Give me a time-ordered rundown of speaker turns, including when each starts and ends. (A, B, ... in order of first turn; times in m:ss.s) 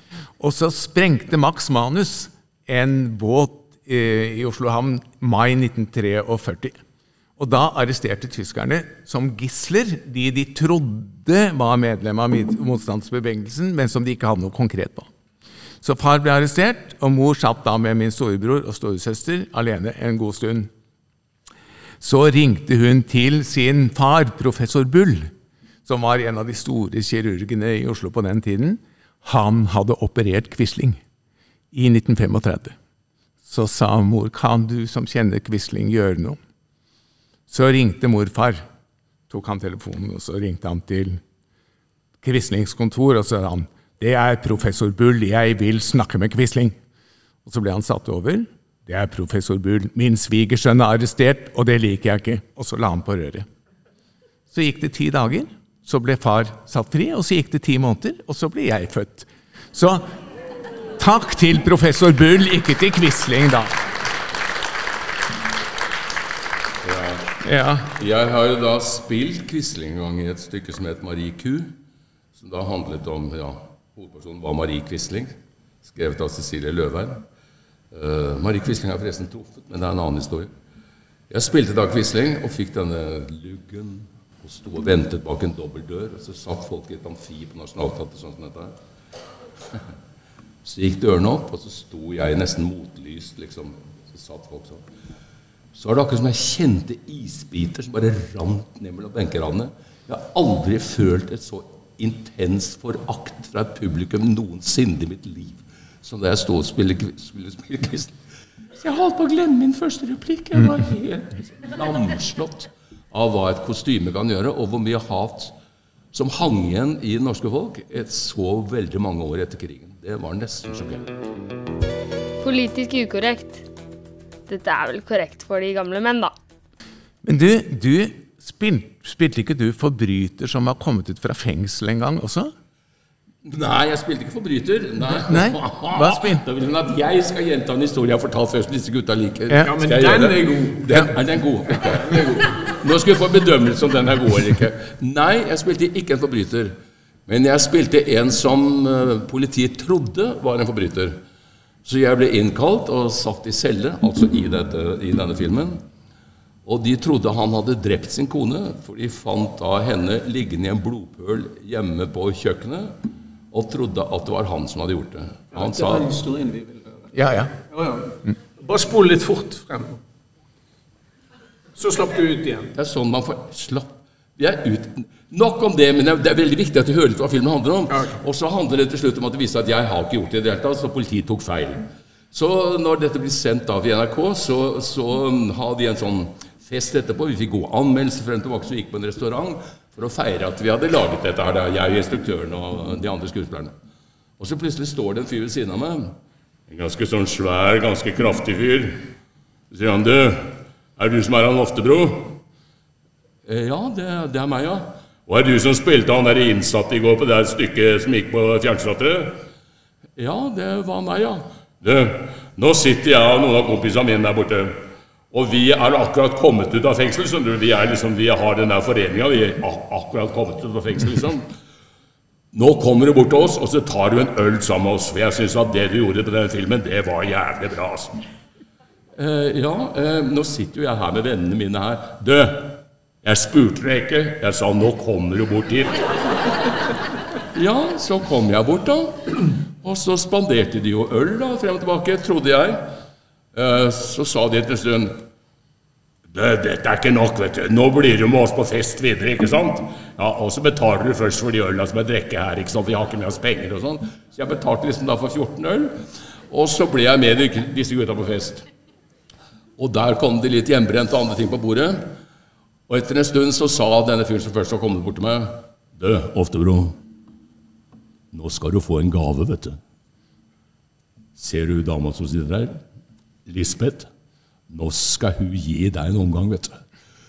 0:00.4-0:06.8 A
0:07.4-0:15.1 A
0:15.8-0:20.7 A
0:22.0-0:25.3 A
0:25.8-0:31.0 A
0:31.7-0:32.8 A
0:33.4-0:36.4 A
0:37.5-0:38.6 A
0:39.3-0:41.2 A
0:42.2-0:46.8 A
0:47.4-0:53.4 A
0:54.5-1:00.0 A
1:01.0-1:03.8 A
1:06.8-1:07.3 B
1:07.4-1:07.9 A
1:07.9-1:11.7 B
1:12.4-1:17.2 B
1:17.9-1:20.5 B
1:21.3-1:28.8 B
1:30.6-1:34.8 B
1:35.7-1:48.2 B
1:48.8-1:55.5 B
1:56.1-2:01.1 B
2:02.4-2:03.6 C
2:04.5-2:06.3 C
2:07.2-2:12.5 A
2:13.4-2:26.7 B
2:15.1-2:16.4 A
2:19.6-2:20.8 D
2:27.3-2:31.2 B
2:31.8-2:35.8 B
2:36.6-2:43.0 B
2:43.5-2:46.1 B
2:45.5-2:47.1 D
2:47.1-2:47.5 A
2:47.7-2:50.0 D
2:51.8-2:52.7 D
2:52.7-3:13.7 B
3:14.4-3:16.1 B
3:16.7-3:19.1 B
3:19.7-3:22.4 B
3:23.4-3:29.4 B
3:30.2-3:34.8 B
3:35.3-3:41.5 B
3:42.5-3:48.2 B
3:49.2-3:56.2 B
3:57.5-4:02.9 B
4:03.5-4:05.2 B
4:06.3-4:16.0 B
4:16.5-4:18.6 B
4:19.8-4:22.1 B
4:22.9-4:27.0 B
4:28.3-4:29.8 B
4:31.4-4:32.8 B
4:33.4-4:34.1 B
4:34.7-4:36.8 B